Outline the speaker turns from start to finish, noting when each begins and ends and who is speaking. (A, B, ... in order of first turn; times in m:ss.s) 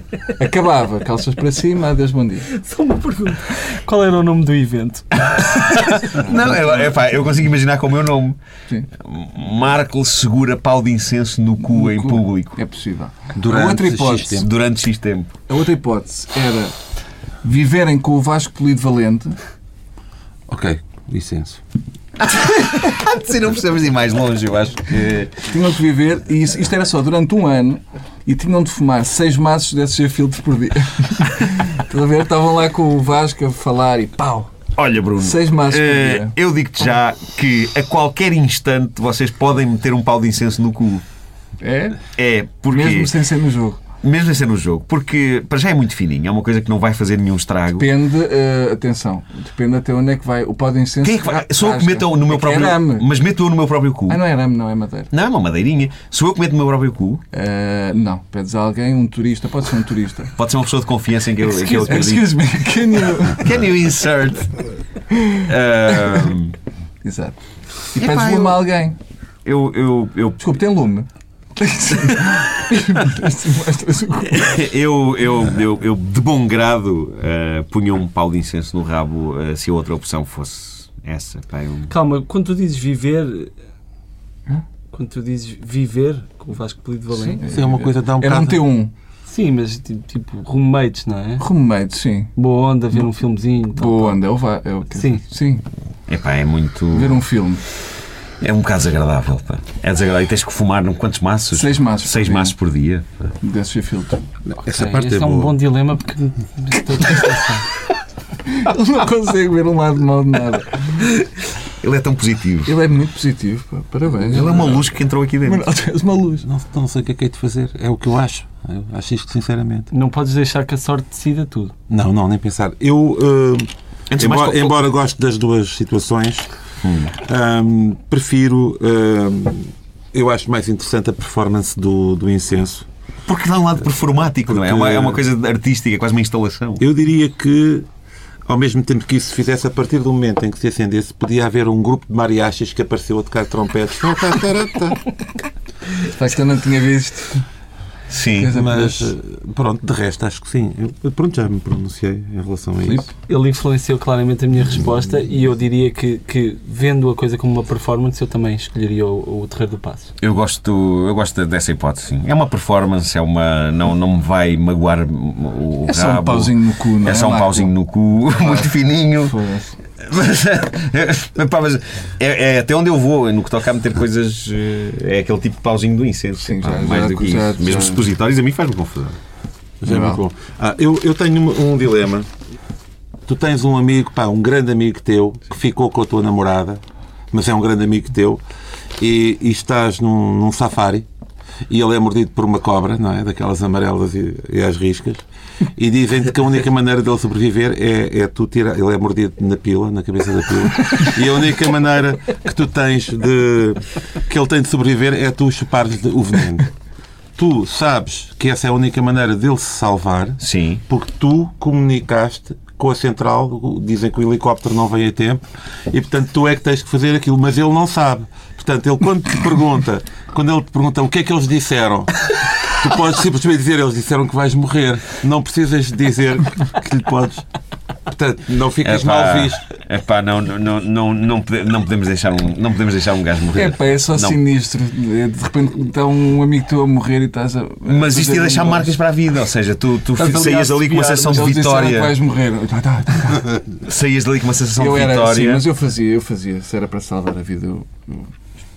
0:00.3-0:02.5 A
0:02.5-0:05.8 B
0:05.3-0:08.4 C
0:06.1-0:06.6 A
0:09.0-0:12.6 C
0:11.6-0:14.4 A
0:13.4-0:14.5 D
0:14.3-0:15.3 C
0:15.5-0:16.7 A
0:17.4-0:19.4 A
0:20.5-0:21.6 D
0:22.2-0:25.4 C
0:25.5-0:34.5 A
0:34.7-0:41.0 C
0:35.2-0:36.3 A
0:41.6-0:42.1 A
0:42.1-0:43.1 C
0:42.7-0:43.8 A
0:44.0-0:47.9 C
0:47.8-0:53.1 A
0:51.0-0:54.2 C
0:54.1-0:55.1 A
0:55.1-0:57.2 C
0:57.3-1:00.3 A
1:00.4-1:02.4 C
1:01.4-1:03.4 A
1:03.0-1:04.6 C
1:05.1-1:05.4 A
1:05.4-1:06.6 C
1:07.0-1:07.4 A
1:07.9-1:09.0 A
1:08.0-1:08.6 C
1:09.4-1:10.4 C
1:10.4-1:14.6 A
1:14.3-1:21.9 C
1:21.9-1:23.5 B
1:24.9-1:27.4 B
1:27.1-1:28.9 A
1:27.5-1:28.6 D
1:29.3-1:31.4 B
1:31.4-1:32.3 A
1:32.4-1:34.2 B
1:33.7-1:35.6 A
1:34.9-1:35.2 B
1:36.1-1:37.2 C
1:36.9-1:37.6 A
1:38.4-1:43.2 C
1:41.5-1:42.5 A
1:43.4-1:44.3 A
1:44.5-1:45.5 D
1:44.7-1:47.6 B
1:48.4-1:51.0 A
1:51.8-1:52.7 C
1:52.6-1:54.9 A
1:54.2-1:55.7 C
1:55.4-1:56.4 A
1:56.4-1:59.9 D
1:59.9-2:01.7 B
2:01.9-2:03.7 D
2:04.1-2:04.9 C
2:04.2-2:06.5 D
2:06.8-2:07.2 C
2:07.2-2:12.8 D
2:13.2-2:16.9 C
2:14.4-2:15.2 D
2:16.8-2:17.9 D
2:18.5-2:25.0 D
2:26.1-2:27.4 A
2:28.1-2:28.6 C
2:28.3-2:29.1 A
2:28.6-2:33.0 D
2:33.2-2:40.1 B
2:40.2-2:49.4 C
2:45.9-2:47.7 A
2:48.4-2:49.8 A
2:50.0-2:59.2 C
2:56.4-2:58.1 A
2:59.8-3:02.3 D
2:59.8-3:00.2 A
3:03.2-3:06.8 D
3:07.3-3:08.4 D
3:09.0-3:11.0 D
3:11.7-3:15.2 D
3:15.8-3:26.7 D
3:27.4-3:42.2 D
3:30.4-3:30.8 C
3:42.8-3:47.4 D
3:48.1-3:49.7 D
3:48.8-3:54.4 C
3:53.5-3:59.0 A
3:57.8-4:02.1 C
4:00.1-4:01.6 B
4:01.3-4:03.6 A
4:03.8-4:05.6 C
4:04.8-4:08.3 A